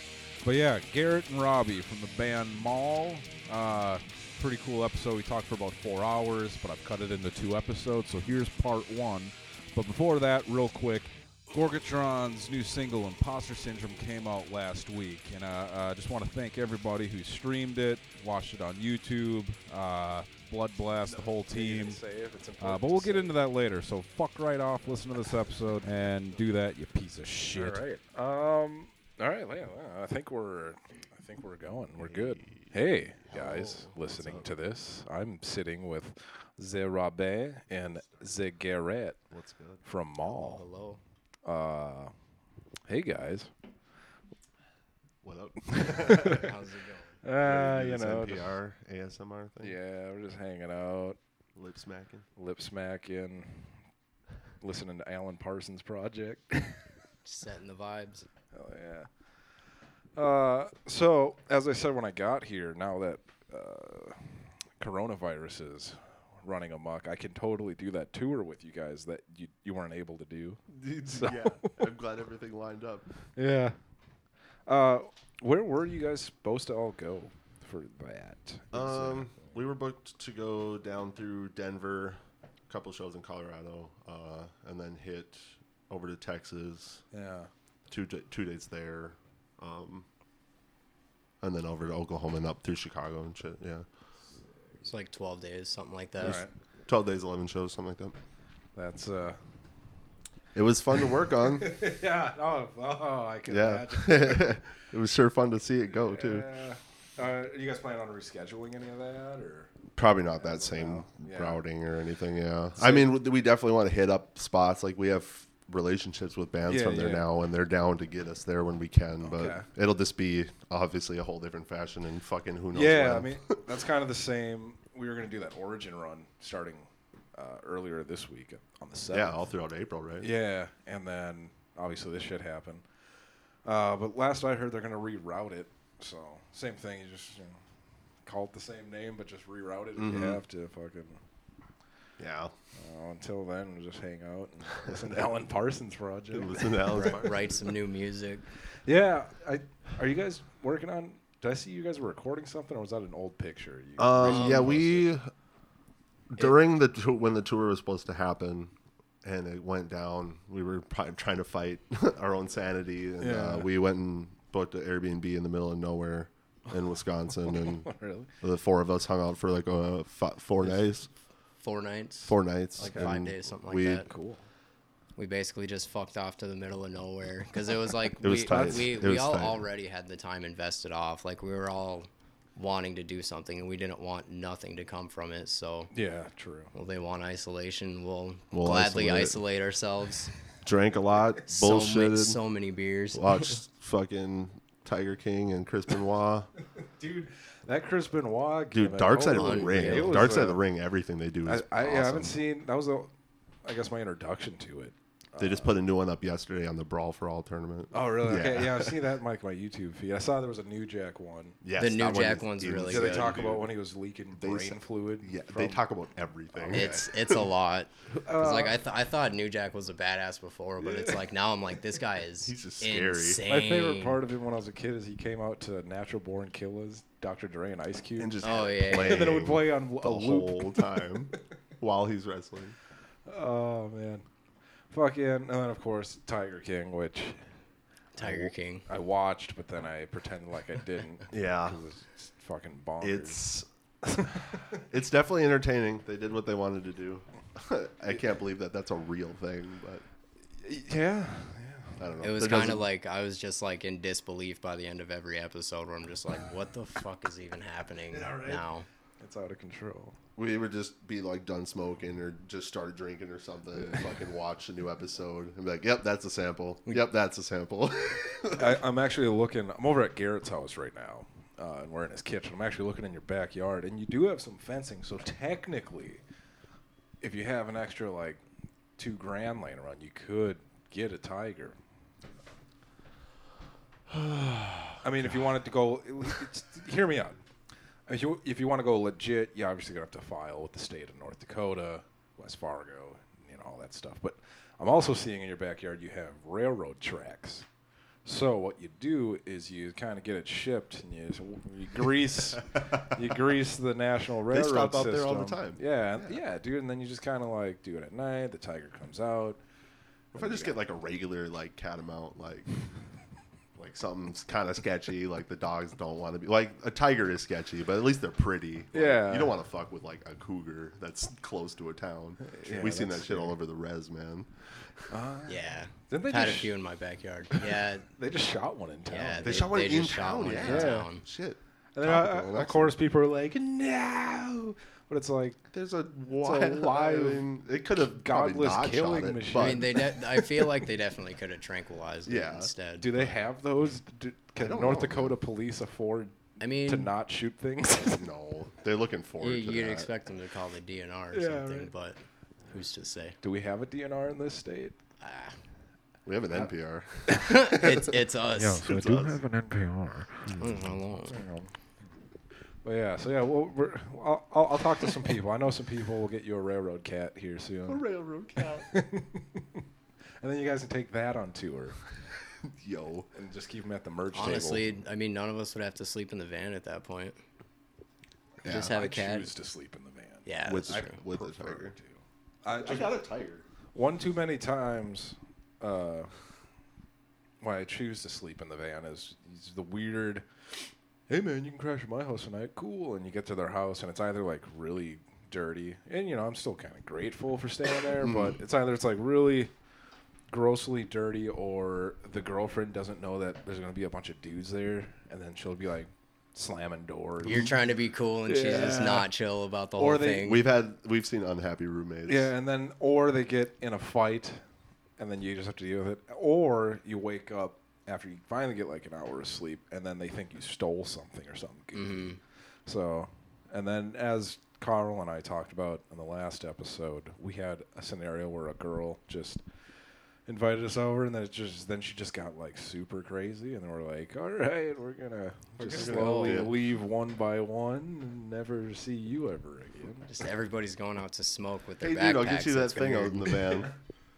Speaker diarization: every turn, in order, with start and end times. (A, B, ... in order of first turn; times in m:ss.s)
0:00.4-0:22.0 A
0:21.0-0:23.4 B
0:22.6-0:28.0 A
0:27.6-0:39.2 B
0:32.0-0:32.7 C
0:33.3-0:34.5 C
0:39.3-0:39.8 C
0:39.8-0:40.6 B
0:40.2-0:41.0 D
0:41.4-0:42.1 B
0:42.9-0:43.5 B
0:45.2-0:46.5 C
0:45.7-0:46.5 B
0:46.2-0:47.2 D
0:47.2-0:48.4 B
0:47.4-0:49.8 C
0:49.6-0:51.2 B
0:51.6-0:52.3 C
0:52.4-0:53.8 B
0:54.6-0:56.8 B
0:57.2-0:58.3 D
0:58.5-0:59.1 B
1:00.2-1:11.8 B
1:10.7-1:13.1 C
1:13.4-1:13.8 B
1:14.7-1:19.6 B
1:18.7-1:27.0 C
1:27.1-1:27.5 B
1:27.9-1:30.1 C
1:31.4-1:33.9 C
1:34.8-1:36.4 D
1:36.2-1:36.5 B
1:36.2-1:38.2 C
1:38.8-1:39.4 B
1:40.5-1:41.7 C
1:41.6-1:44.6 B
1:43.5-1:46.5 C
1:46.0-1:49.7 B
1:49.9-2:03.6 C
1:50.4-1:51.6 B
1:52.8-1:53.1 B
1:56.7-1:57.3 B
1:59.2-1:59.7 B
2:02.7-2:09.5 B
2:09.1-2:10.3 C
2:10.2-2:12.9 B
2:13.6-2:17.6 B
2:18.2-2:21.2 B
2:20.0-2:20.4 C
2:22.2-2:22.5 C
2:22.8-2:27.2 B
2:26.3-2:27.6 C
2:26.9-2:28.4 D
2:28.9-2:35.1 B
2:34.0-2:35.3 C
2:34.2-2:34.6 D
2:36.3-2:38.7 C
2:39.2-2:51.1 C
2:43.2-2:43.7 B
2:47.5-2:48.3 B
2:51.6-2:54.1 D
2:52.3-2:54.1 C
2:52.8-2:53.1 B
2:54.1-2:54.4 B
2:55.2-3:05.9 D
2:58.2-2:59.6 C
3:05.9-3:06.7 B
3:06.7-3:10.4 D
3:08.5-3:09.4 C
3:10.6-3:12.4 C
3:11.5-3:13.6 D
3:13.1-3:16.5 C
3:17.0-3:20.6 B
3:18.7-3:22.4 C
3:19.3-3:20.3 D
3:21.5-3:23.1 B
3:23.6-3:25.8 B
3:25.4-3:29.0 C
3:27.9-3:31.6 B
3:31.6-3:33.6 C
3:31.8-3:33.4 D
3:32.9-3:35.8 B
3:34.4-3:37.2 C
3:36.5-3:37.1 B
3:36.7-3:44.2 D
3:38.1-3:38.8 B
3:42.4-3:43.4 C
3:43.5-3:48.4 B
3:48.2-3:52.8 C
3:48.4-3:49.3 D
3:48.9-3:51.4 B
3:53.3-3:54.2 B
3:54.9-3:57.5 B
3:58.2-3:58.8 D
3:58.2-4:03.4 B
4:01.3-4:01.8 C
4:03.0-4:03.7 C
4:04.1-4:04.6 B
4:04.7-4:10.0 C
4:10.6-4:12.0 B
4:12.0-4:12.8 C
4:12.2-4:18.9 D
4:18.1-4:18.6 B
4:19.2-4:20.2 B
4:20.4-4:28.8 C
4:28.6-4:36.2 B
4:37.2-4:38.4 B
4:39.0-4:41.8 B
4:44.1-4:45.0 C
4:45.0-4:47.4 B
4:48.1-4:57.7 B
4:58.2-5:09.6 B
5:04.5-5:06.4 C
5:10.3-5:10.8 B
5:10.4-5:12.8 C
5:13.8-5:25.1 C
5:18.9-5:19.6 B
5:22.4-5:23.6 B
5:25.1-5:25.6 B
5:25.5-5:28.1 D
5:26.1-5:26.7 B
5:28.1-5:29.6 B
5:29.1-5:31.2 D
5:29.4-5:32.9 C
5:30.5-5:31.1 B
5:32.0-5:35.6 B
5:35.7-5:40.1 C
5:36.4-5:37.5 B
5:38.1-5:40.6 B
5:39.5-5:43.0 D
5:42.3-5:43.3 C
5:43.0-5:48.2 B
5:44.6-5:45.4 C
5:46.6-5:47.1 D
5:48.0-5:50.1 C
5:49.4-5:52.2 D
5:51.3-5:51.9 B
5:52.7-5:53.4 D
5:53.4-5:55.0 B
5:55.2-5:55.6 D
5:56.3-5:58.1 C
5:57.4-5:59.0 D
5:58.6-6:00.6 B
5:58.8-5:59.4 C
6:00.5-6:00.8 C
6:00.6-6:01.4 D
6:01.3-6:01.7 B
6:02.8-6:08.0 B
6:07.9-6:08.9 C
6:08.9-6:09.8 B
6:10.4-6:12.0 B
6:12.6-6:13.3 C
6:13.3-6:14.9 B
6:14.3-6:17.4 D
6:18.6-6:18.9 C
6:18.6-6:19.5 D
6:18.7-6:23.2 B
6:20.5-6:21.2 D
6:20.6-6:22.0 C
6:22.8-6:23.6 C
6:24.0-6:26.3 B
6:27.6-6:39.7 B
6:40.5-6:47.7 B
6:47.4-6:50.6 D
6:48.5-6:49.3 B
6:50.0-6:50.4 B
6:50.4-6:52.5 C
6:52.3-6:54.6 B
6:55.2-7:09.6 B
7:01.9-7:02.4 D
7:10.5-7:20.3 B
7:15.8-7:16.7 C
7:15.9-7:16.7 D
7:20.3-7:23.7 D
7:22.0-7:23.9 C